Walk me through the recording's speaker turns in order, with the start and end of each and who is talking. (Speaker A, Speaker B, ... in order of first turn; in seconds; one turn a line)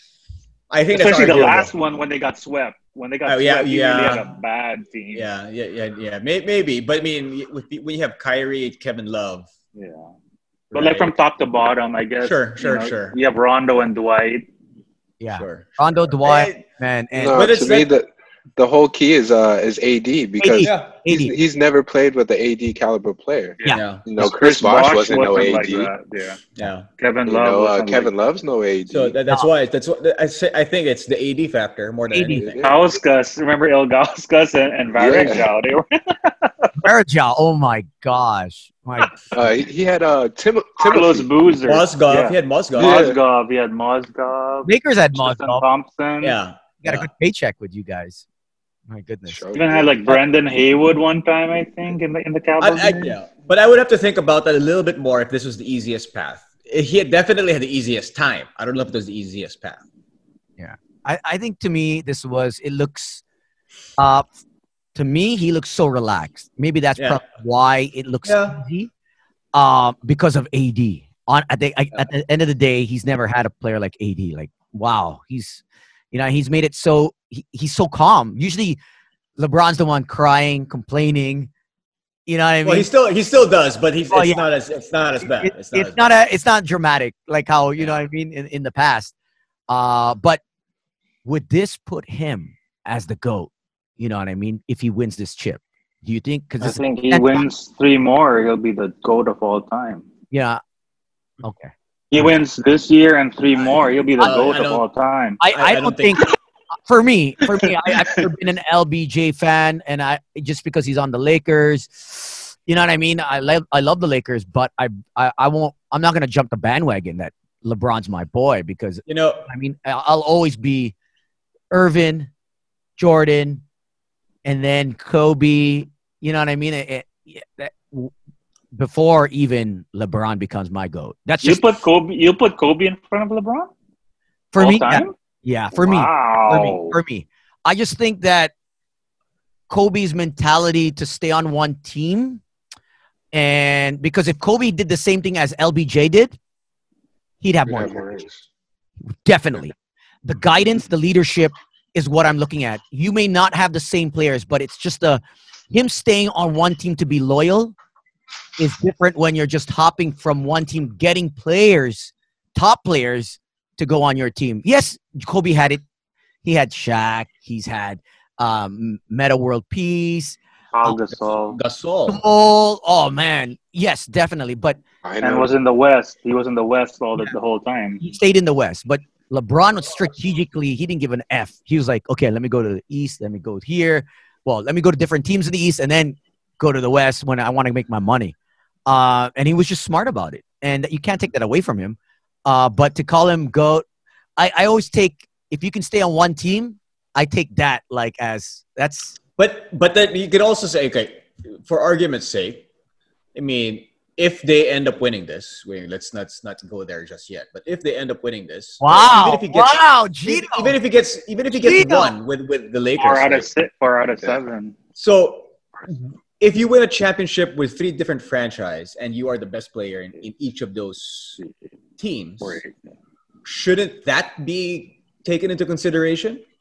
Speaker A: 0.7-1.7
Speaker B: 0.9-5.3
Speaker A: 3.3-4.3
Speaker A: 5.1-9.5
Speaker B: 9.8-10.1
Speaker A: 10.7-11.1
Speaker B: 10.7-14.5
Speaker A: 12.2-13.2
Speaker C: 15.2-17.4
Speaker A: 15.4-16.6
Speaker D: 17.1-25.9
Speaker A: 17.3-17.9
Speaker C: 20.4-21.4
Speaker A: 20.6-20.9
Speaker B: 23.6-26.4
Speaker A: 23.7-24.1
Speaker A: 26.6-26.9
Speaker B: 27.0-28.1
Speaker D: 27.3-29.2
Speaker A: 28.9-32.6
Speaker C: 32.1-32.5
Speaker D: 32.4-32.8
Speaker B: 32.6-36.7
Speaker D: 34.9-35.5
Speaker C: 36.8-39.1
Speaker D: 39.3-41.3
Speaker B: 40.8-46.4
Speaker A: 41.7-43.0
Speaker D: 42.8-43.2
Speaker C: 44.7-45.6
Speaker A: 46.2-47.1
Speaker C: 46.8-48.2
Speaker C: 48.9-49.4
Speaker D: 49.3-50.0
Speaker B: 49.5-53.2
Speaker A: 52.6-59.8
Speaker C: 60.6-63.2
Speaker C: 64.0-64.3
Speaker C: 65.0-68.9
Speaker A: 68.2-68.6
Speaker C: 69.5-78.8
Speaker C: 79.4-81.5
Speaker C: 82.3-82.9
Speaker A: 82.6-86.0
Speaker C: 84.1-84.5
Speaker C: 85.3-89.1
Speaker C: 89.7-90.4
Speaker C: 91.2-97.4
Speaker B: 96.6-100.1
Speaker C: 100.3-100.6
Speaker C: 101.4-101.7
Speaker B: 102.1-105.4
Speaker A: 104.2-104.8
Speaker C: 104.2-104.5
Speaker C: 105.4-106.3
Speaker A: 105.5-106.3
Speaker C: 106.9-120.9
Speaker A: 119.1-119.5
Speaker C: 121.7-122.3
Speaker C: 123.0-123.6
Speaker C: 124.5-128.1
Speaker C: 128.7-131.6
Speaker B: 131.4-133.7
Speaker C: 134.5-138.5
Speaker B: 134.6-135.1
Speaker B: 135.7-137.0
Speaker C: 139.7-142.4
Speaker C: 143.3-146.4
Speaker C: 147.4-148.2
Speaker D: 147.7-148.4
Speaker C: 149.1-157.8
Speaker C: 158.6-165.8
Speaker C: 166.4-170.9
Speaker B: 170.7-171.6
Speaker A: 171.5-172.2
Speaker C: 172.1-174.8
Speaker D: 175.0-175.5
Speaker B: 175.2-178.0
Speaker C: 178.0-188.3
Speaker C: 188.9-193.8
Speaker C: 194.4-199.2
Speaker A: 199.4-202.7
Speaker A: 203.3-213.5
Speaker C: 208.8-210.8
Speaker C: 211.5-212.2
Speaker B: 213.0-214.8
Speaker A: 215.0-221.4
Speaker A: 222.0-222.6
Speaker B: 222.4-222.9
Speaker A: 223.4-226.4